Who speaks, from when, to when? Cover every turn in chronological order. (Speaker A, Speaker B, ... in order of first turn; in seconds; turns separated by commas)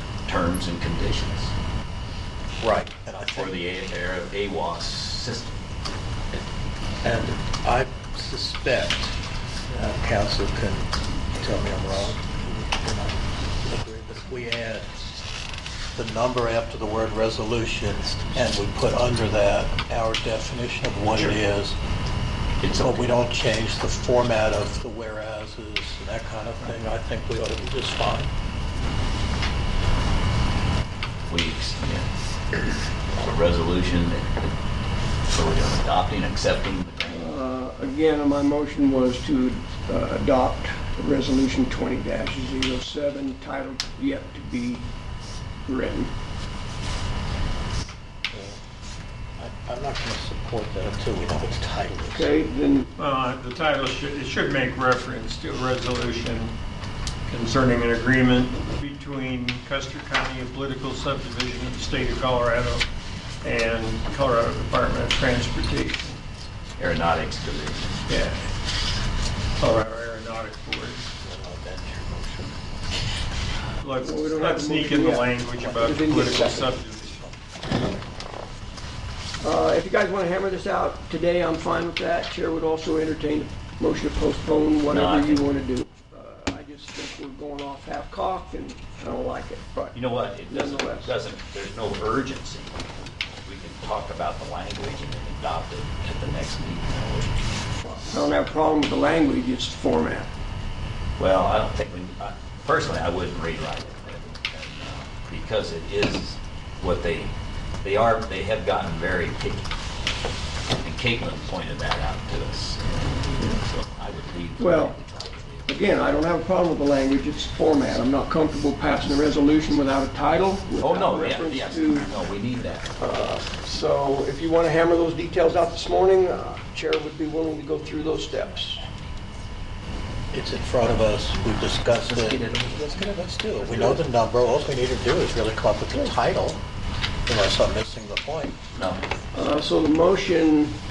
Speaker A: 0.3-1.5, Speaker B: 2.6-3.6, Speaker A: 3.3-5.6, Speaker B: 7.0-9.2, Speaker B: 9.7-14.9, Speaker B: 15.9-21.8, Speaker A: 22.6-23.2, Speaker B: 22.8-28.3, Speaker A: 31.3-32.1, Speaker A: 33.1-34.5, Speaker A: 35.3-37.4, Speaker C: 37.1-44.9, Speaker C: 45.7-46.1, Speaker B: 48.3-48.6, Speaker B: 49.4-52.4, Speaker C: 52.1-52.9, Speaker D: 53.0-56.5, Speaker D: 57.3-62.9, Speaker D: 63.4-66.2, Speaker A: 66.8-67.9, Speaker D: 68.1-68.5, Speaker D: 69.6-71.0, Speaker B: 71.2-72.6, Speaker D: 73.8-77.3, Speaker C: 74.0-76.7, Speaker C: 79.4-91.1, Speaker A: 84.9-85.5, Speaker A: 89.9-92.8, Speaker A: 93.4-97.3, Speaker C: 97.9-100.3, Speaker A: 101.2-109.7, Speaker A: 110.8-115.8, Speaker C: 114.6-115.0, Speaker C: 115.7-122.1, Speaker A: 120.8-123.0, Speaker C: 123.0-128.8, Speaker B: 130.3-136.6, Speaker A: 132.0-132.9, Speaker C: 133.7-134.0, Speaker B: 137.3-138.6, Speaker A: 138.7-139.0, Speaker C: 139.3-140.8